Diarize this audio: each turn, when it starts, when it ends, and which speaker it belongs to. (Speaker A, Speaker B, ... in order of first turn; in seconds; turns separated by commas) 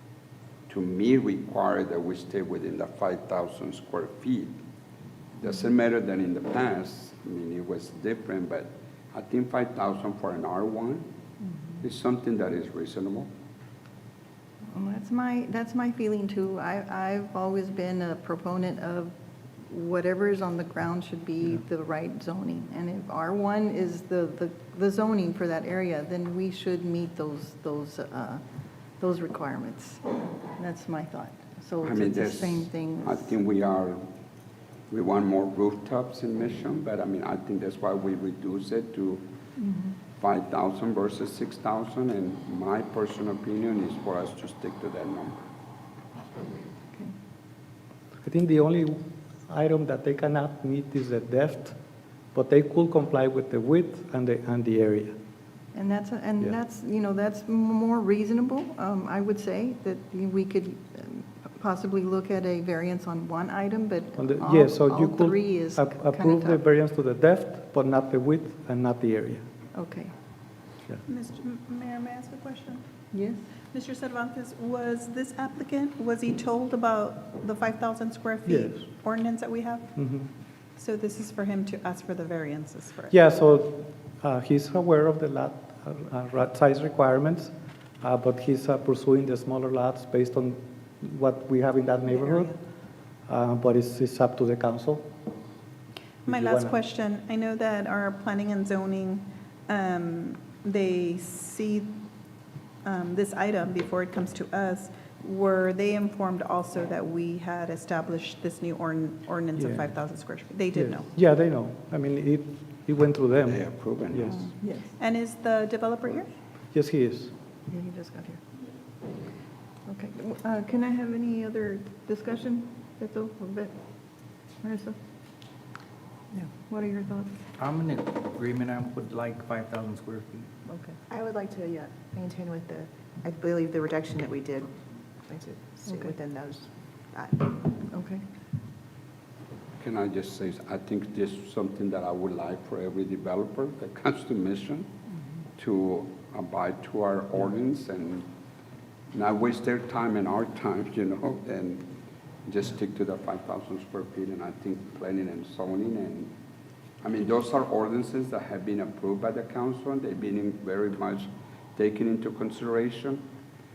Speaker A: 0.7-4.5, Speaker A: 5.4-11.1, Speaker A: 11.8-13.3, Speaker B: 14.7-19.1, Speaker B: 19.7-28.4, Speaker B: 29.0-33.4, Speaker A: 31.8-34.1, Speaker A: 34.9-39.2, Speaker B: 39.6-40.0, Speaker A: 40.2-45.5, Speaker C: 48.2-51.8, Speaker C: 52.3-55.1, Speaker B: 55.7-66.6, Speaker C: 64.2-69.5, Speaker B: 69.7-70.1, Speaker D: 71.1-72.8, Speaker B: 73.1-73.4, Speaker D: 73.7-79.9, Speaker C: 78.5-78.8, Speaker C: 80.0-80.3, Speaker D: 80.8-83.2, Speaker C: 83.1-92.6, Speaker E: 92.1-92.4, Speaker C: 93.3-95.1, Speaker D: 96.3-102.0, Speaker C: 96.3-96.8, Speaker D: 102.8-111.1, Speaker C: 109.5-109.9, Speaker C: 110.7-114.5, Speaker A: 113.5-114.4, Speaker B: 114.6-114.9, Speaker D: 115.0-116.3, Speaker C: 116.7-117.3, Speaker B: 117.7-118.4, Speaker B: 119.9-123.7, Speaker B: 124.6-125.0, Speaker B: 126.4-127.3, Speaker F: 127.6-130.5, Speaker E: 131.1-134.7, Speaker E: 135.3-137.6, Speaker B: 135.9-136.2, Speaker B: 137.9-138.2, Speaker A: 139.8-144.9, Speaker A: 145.6-148.3, Speaker A: 149.1-151.9, Speaker A: 152.5-156.3, Speaker A: 157.0-163.2